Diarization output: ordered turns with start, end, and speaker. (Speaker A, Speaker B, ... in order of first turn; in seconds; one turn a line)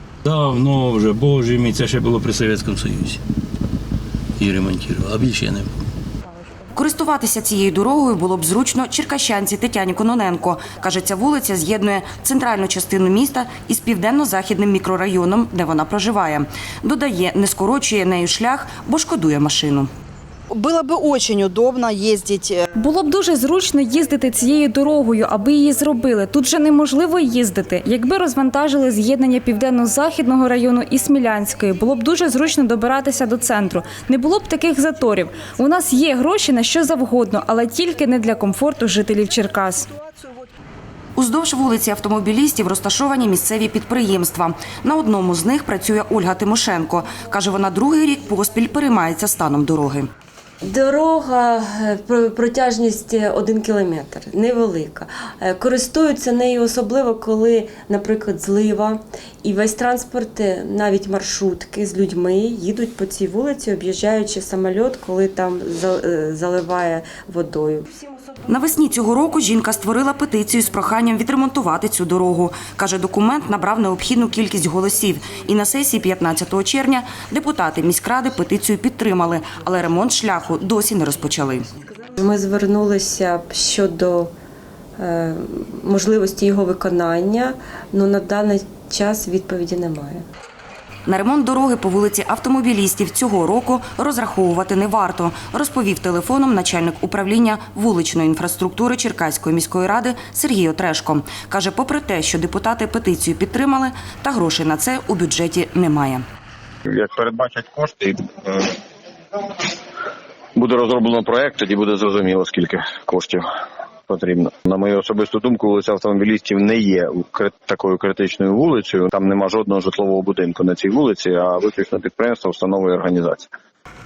Speaker A: 0.2-3.2
Speaker A: 4.4-5.7
Speaker B: 6.7-19.9
Speaker C: 20.5-22.6
Speaker D: 22.7-39.9
Speaker B: 41.1-50.1
Speaker E: 50.6-67.9
Speaker B: 68.5-81.7
Speaker E: 82.2-84.3
Speaker E: 85.0-90.2
Speaker B: 91.0-106.2
Speaker F: 106.9-108.8
Speaker F: 110.5-113.4
Speaker F: 114.1-123.5